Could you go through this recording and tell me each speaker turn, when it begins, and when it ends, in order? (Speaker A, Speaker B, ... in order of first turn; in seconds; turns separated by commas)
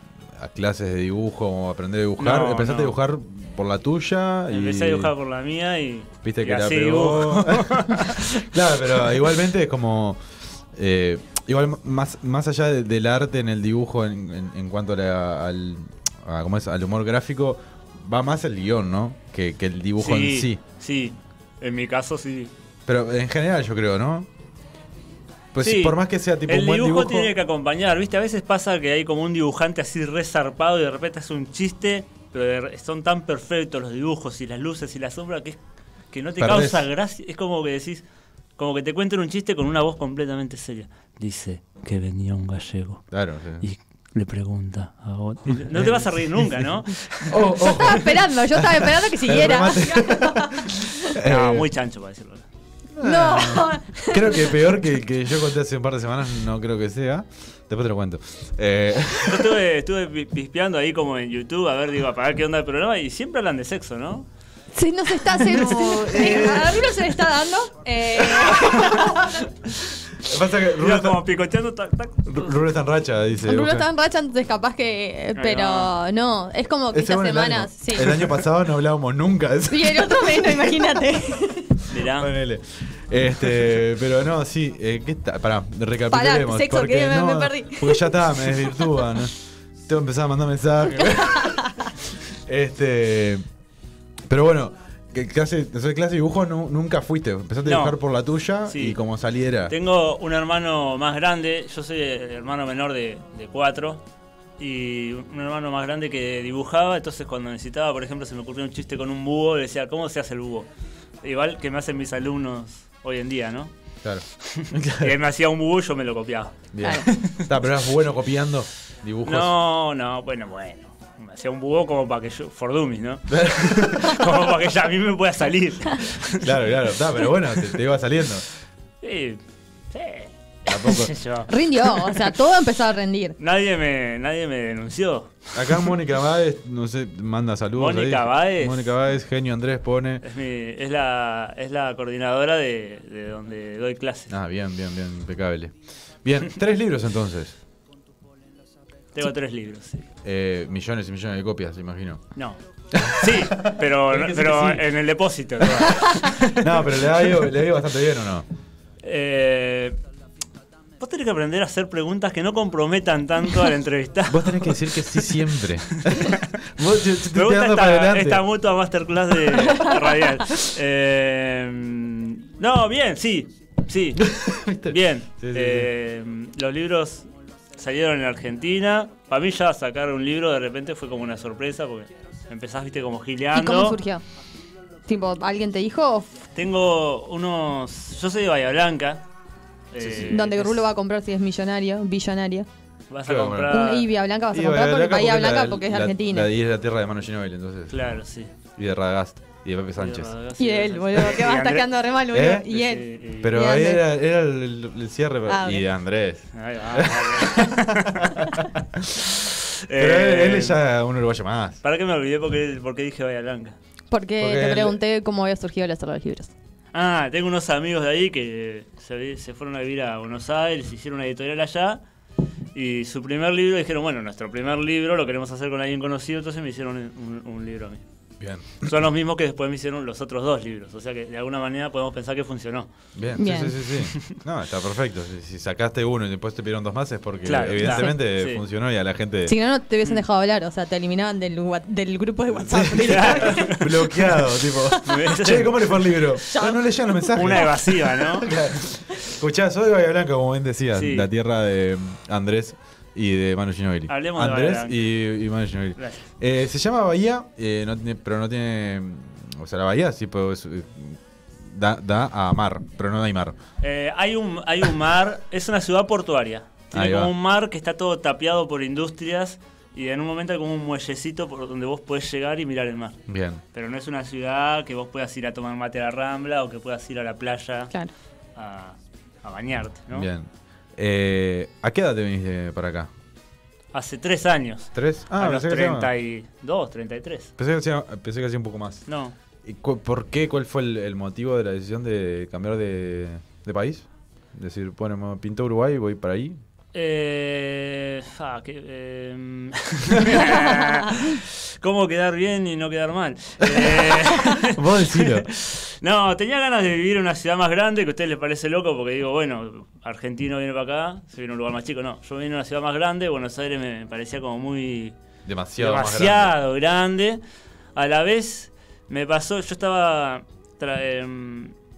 Speaker A: 0.4-5.1, Speaker B: 2.2-3.0, Speaker B: 4.5-8.3, Speaker A: 6.2-10.2, Speaker A: 10.7-20.6, Speaker B: 20.0-22.5, Speaker A: 22.9-24.3, Speaker A: 25.5-27.3, Speaker B: 25.6-35.6, Speaker B: 36.1-38.0, Speaker A: 36.4-36.9, Speaker B: 38.6-43.0, Speaker A: 43.1-43.6, Speaker B: 43.6-47.4, Speaker A: 45.5-46.7, Speaker A: 47.2-51.7, Speaker C: 47.6-50.7, Speaker B: 51.2-52.5, Speaker A: 53.0-59.6, Speaker C: 53.0-54.5, Speaker B: 59.3-64.3, Speaker C: 64.7-69.4, Speaker A: 65.5-66.9, Speaker B: 65.7-66.5, Speaker A: 68.2-69.1, Speaker A: 70.2-71.2, Speaker B: 70.8-72.5, Speaker A: 72.2-73.9, Speaker C: 73.5-78.3, Speaker B: 75.4-75.9, Speaker A: 76.9-80.8, Speaker C: 79.7-81.8, Speaker B: 81.9-82.3, Speaker A: 82.0-89.3, Speaker C: 86.1-88.8, Speaker A: 89.9-93.5, Speaker A: 94.3-99.7, Speaker B: 97.6-98.0, Speaker B: 98.7-99.0, Speaker B: 99.7-104.0, Speaker B: 104.6-110.7, Speaker B: 111.2-113.7, Speaker A: 114.0-115.2, Speaker B: 114.5-117.5, Speaker A: 116.7-119.5, Speaker C: 116.8-117.1, Speaker B: 119.2-126.5, Speaker A: 123.3-124.2, Speaker A: 126.4-128.4, Speaker B: 129.0-129.4, Speaker B: 129.9-131.5, Speaker A: 130.7-131.1, Speaker C: 131.5-133.4, Speaker B: 133.4-135.4, Speaker A: 135.5-140.2, Speaker B: 137.8-138.9, Speaker B: 140.2-144.3, Speaker A: 144.3-147.6, Speaker B: 149.1-150.1, Speaker A: 150.2-152.2, Speaker A: 152.9-154.8, Speaker B: 153.2-156.6, Speaker A: 155.6-158.5, Speaker B: 159.0-160.0, Speaker B: 161.0-164.8, Speaker A: 164.3-168.4, Speaker B: 166.0-166.3, Speaker B: 167.3-174.3, Speaker A: 174.2-175.9, Speaker B: 174.9-184.0, Speaker C: 183.5-184.2, Speaker C: 185.1-186.4, Speaker B: 186.6-189.2, Speaker B: 189.9-190.8, Speaker A: 190.0-190.3, Speaker C: 190.2-192.7, Speaker B: 193.1-194.1, Speaker A: 193.2-193.9, Speaker C: 193.7-196.5, Speaker A: 194.5-198.0, Speaker B: 197.9-198.5, Speaker A: 198.8-200.3, Speaker B: 200.0-202.0, Speaker C: 200.6-204.0, Speaker A: 202.3-202.7, Speaker B: 202.7-203.6, Speaker A: 203.4-209.3, Speaker C: 205.5-205.8, Speaker B: 206.6-208.3, Speaker B: 209.9-210.8, Speaker A: 209.9-211.8, Speaker B: 211.8-213.8, Speaker C: 214.1-216.5, Speaker A: 214.4-215.0, Speaker B: 216.9-222.0, Speaker B: 222.8-228.0, Speaker A: 228.4-228.9, Speaker B: 228.8-232.9, Speaker A: 233.2-239.5, Speaker C: 233.4-233.8, Speaker B: 234.0-234.4, Speaker B: 237.4-238.6, Speaker C: 237.8-238.2, Speaker C: 239.5-244.1, Speaker A: 242.5-263.6, Speaker B: 243.1-243.9, Speaker B: 245.1-246.0, Speaker C: 246.5-246.8, Speaker B: 247.3-248.5, Speaker B: 250.9-251.3, Speaker B: 254.1-255.0, Speaker B: 263.8-273.2, Speaker A: 266.9-267.3, Speaker A: 273.3-273.6, Speaker B: 273.7-277.9, Speaker B: 278.6-280.3, Speaker A: 280.1-283.1, Speaker B: 283.9-287.5, Speaker A: 284.9-286.1, Speaker A: 287.6-289.1, Speaker B: 289.1-289.4, Speaker A: 289.6-296.6, Speaker B: 296.9-315.2, Speaker A: 303.7-304.1, Speaker A: 304.6-305.5, Speaker A: 315.4-316.6, Speaker B: 315.8-317.4, Speaker B: 317.9-321.8